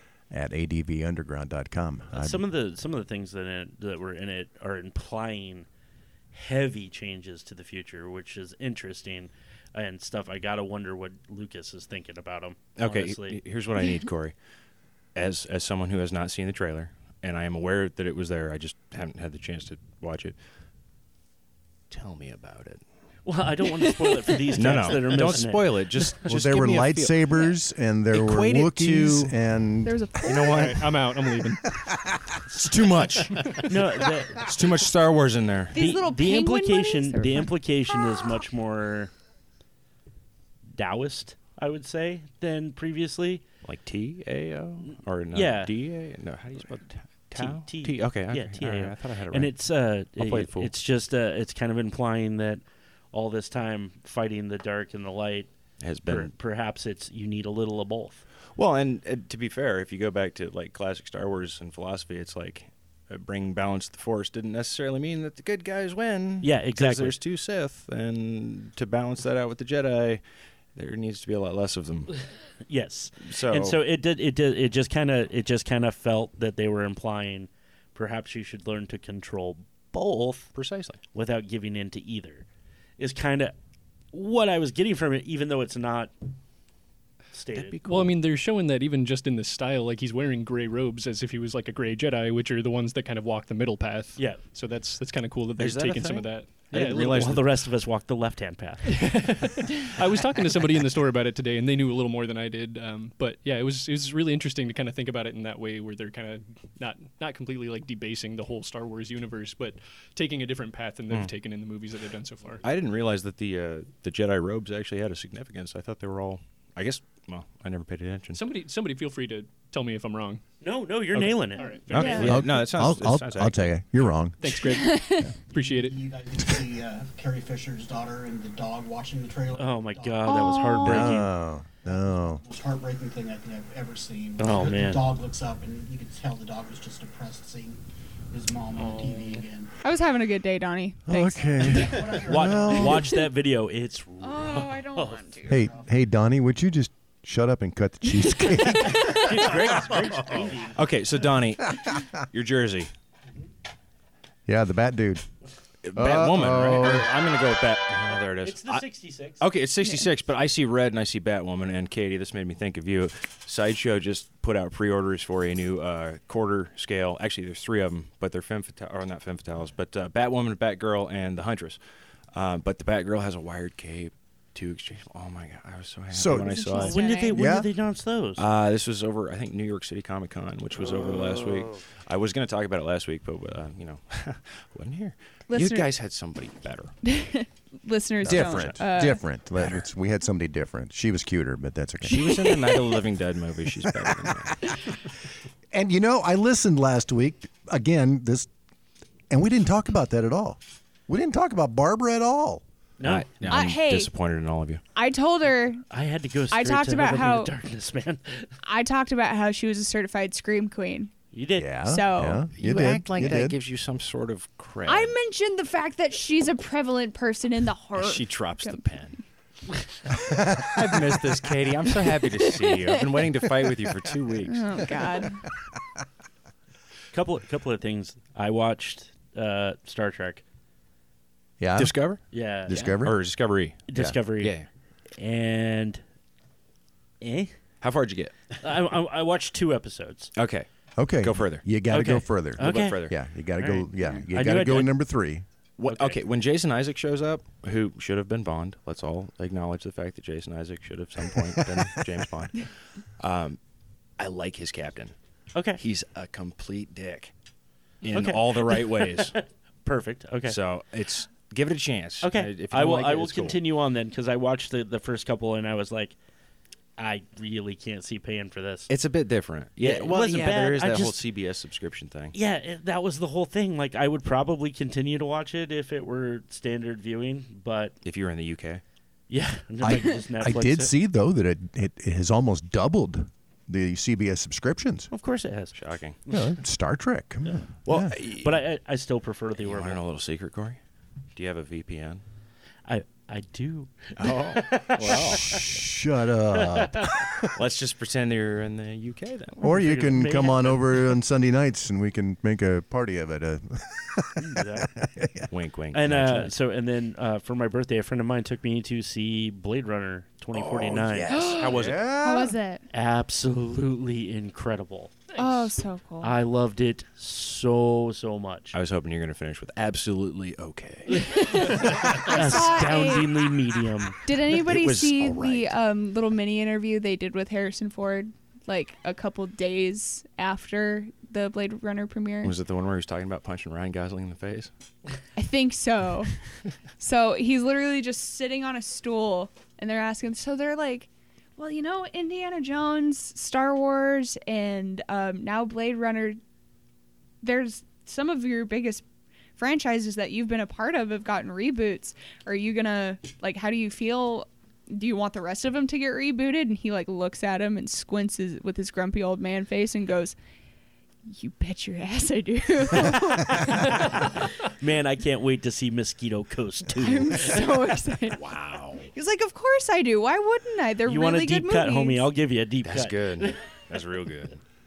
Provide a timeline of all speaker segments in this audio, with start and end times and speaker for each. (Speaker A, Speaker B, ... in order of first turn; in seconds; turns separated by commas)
Speaker A: 0.3-2.4, Speaker B: 2.1-5.7, Speaker B: 6.3-13.4, Speaker C: 12.8-14.3, Speaker C: 15.1-20.4, Speaker C: 21.9-22.8, Speaker B: 23.2-25.9, Speaker D: 24.1-24.4, Speaker C: 24.5-27.4, Speaker A: 26.2-30.5, Speaker C: 28.1-29.4, Speaker D: 29.9-30.7, Speaker C: 30.2-31.0, Speaker E: 30.7-31.7, Speaker C: 32.5-33.7, Speaker B: 33.6-34.5, Speaker C: 34.3-35.8, Speaker D: 35.7-38.4, Speaker B: 35.8-39.1, Speaker B: 40.7-43.5, Speaker C: 43.6-49.5, Speaker B: 45.3-45.7, Speaker B: 47.4-55.5, Speaker C: 50.2-50.7, Speaker C: 55.8-56.3, Speaker B: 56.1-58.2, Speaker C: 58.6-72.2, Speaker B: 66.4-67.2, Speaker B: 72.7-80.5, Speaker C: 73.2-73.8, Speaker C: 80.5-81.0, Speaker B: 81.1-82.5, Speaker B: 83.0-83.5, Speaker B: 84.1-86.1, Speaker B: 87.3-87.8, Speaker C: 87.5-88.2, Speaker E: 87.8-97.3, Speaker B: 94.2-94.4, Speaker C: 95.6-97.6, Speaker B: 96.8-99.1, Speaker E: 98.8-112.6, Speaker C: 111.1-111.3, Speaker C: 112.6-118.4, Speaker E: 118.3-120.4, Speaker B: 120.6-121.8, Speaker C: 121.1-123.7, Speaker E: 121.6-122.5, Speaker D: 121.9-122.3, Speaker A: 122.0-124.5, Speaker E: 124.4-126.0, Speaker D: 124.7-125.3, Speaker F: 125.5-131.2, Speaker B: 129.6-131.3, Speaker D: 130.3-131.1, Speaker A: 130.8-132.4, Speaker F: 131.8-137.8, Speaker B: 134.4-135.0, Speaker F: 138.3-139.7, Speaker D: 139.8-141.9, Speaker A: 141.1-143.1, Speaker F: 141.4-143.0, Speaker B: 142.1-145.2, Speaker D: 144.2-145.7, Speaker A: 145.5-149.2, Speaker F: 145.5-145.9, Speaker D: 148.1-149.5, Speaker B: 148.7-150.8, Speaker C: 150.7-152.9, Speaker A: 154.5-155.3, Speaker C: 155.8-158.9, Speaker A: 155.9-157.2, Speaker B: 158.4-159.4, Speaker C: 159.4-171.8, Speaker C: 172.3-177.0, Speaker A: 176.1-176.5, Speaker D: 176.3-177.4, Speaker B: 176.9-178.4, Speaker A: 177.3-177.7, Speaker C: 178.4-186.9, Speaker D: 185.5-185.9, Speaker D: 187.0-189.2, Speaker C: 188.2-189.2, Speaker A: 188.3-192.9, Speaker C: 192.0-194.6, Speaker A: 193.8-194.8, Speaker A: 195.7-198.5, Speaker A: 199.3-202.6, Speaker B: 203.0-203.6, Speaker C: 203.0-204.8, Speaker D: 203.5-204.1, Speaker D: 204.9-205.8, Speaker B: 205.9-208.5, Speaker D: 206.5-207.5, Speaker D: 208.6-211.1, Speaker B: 211.3-211.8, Speaker A: 211.6-213.6, Speaker D: 211.8-212.4, Speaker C: 212.5-215.1, Speaker D: 214.9-218.8, Speaker C: 217.9-219.2, Speaker A: 220.2-221.4, Speaker C: 220.6-224.7, Speaker D: 222.0-223.7, Speaker D: 224.4-225.4, Speaker B: 227.1-230.4, Speaker A: 231.6-231.9, Speaker C: 231.8-234.7, Speaker B: 232.3-232.9, Speaker A: 232.7-233.2, Speaker B: 233.9-234.6, Speaker B: 235.2-236.0, Speaker B: 237.2-237.5, Speaker C: 237.8-238.3, Speaker B: 238.6-240.3, Speaker C: 240.3-240.7, Speaker A: 241.0-245.4, Speaker C: 241.2-241.7, Speaker B: 241.9-245.0, Speaker C: 242.6-243.2, Speaker C: 245.8-253.6, Speaker B: 245.8-246.2, Speaker A: 251.6-252.1, Speaker C: 254.2-255.1, Speaker B: 255.5-255.8, Speaker C: 255.8-257.3, Speaker C: 258.0-259.4, Speaker B: 258.1-260.6, Speaker C: 260.5-263.6, Speaker B: 262.2-266.2, Speaker B: 267.0-268.9, Speaker C: 268.9-272.3, Speaker B: 269.8-271.2, Speaker B: 272.3-277.9, Speaker C: 278.0-278.8, Speaker B: 279.3-280.9, Speaker A: 279.8-285.1, Speaker B: 285.1-286.6, Speaker C: 285.7-286.2, Speaker A: 286.3-288.1, Speaker C: 287.8-288.6, Speaker B: 288.2-290.0, Speaker C: 289.6-290.8, Speaker C: 291.3-292.2, Speaker B: 292.9-295.7, Speaker C: 294.2-295.6, Speaker A: 295.0-297.5, Speaker B: 296.5-297.1, Speaker C: 297.6-299.6, Speaker B: 299.6-300.9, Speaker A: 299.6-305.5, Speaker B: 304.4-304.9, Speaker C: 305.5-306.5, Speaker B: 305.9-311.3, Speaker C: 310.5-312.1, Speaker D: 311.3-312.8, Speaker A: 311.7-312.5, Speaker B: 312.9-315.4, Speaker D: 315.4-316.3, Speaker B: 316.2-318.8, Speaker C: 318.7-322.8, Speaker B: 321.1-324.2, Speaker D: 321.3-323.3, Speaker C: 324.1-325.7, Speaker D: 324.2-332.6, Speaker C: 332.4-334.7, Speaker D: 335.4-336.3, Speaker D: 337.0-346.4, Speaker D: 347.4-349.0, Speaker D: 349.6-360.4, Speaker D: 361.3-364.0, Speaker B: 363.6-367.8, Speaker D: 367.0-368.4, Speaker C: 368.3-369.1, Speaker D: 369.1-372.3, Speaker B: 371.1-373.6, Speaker C: 372.8-374.6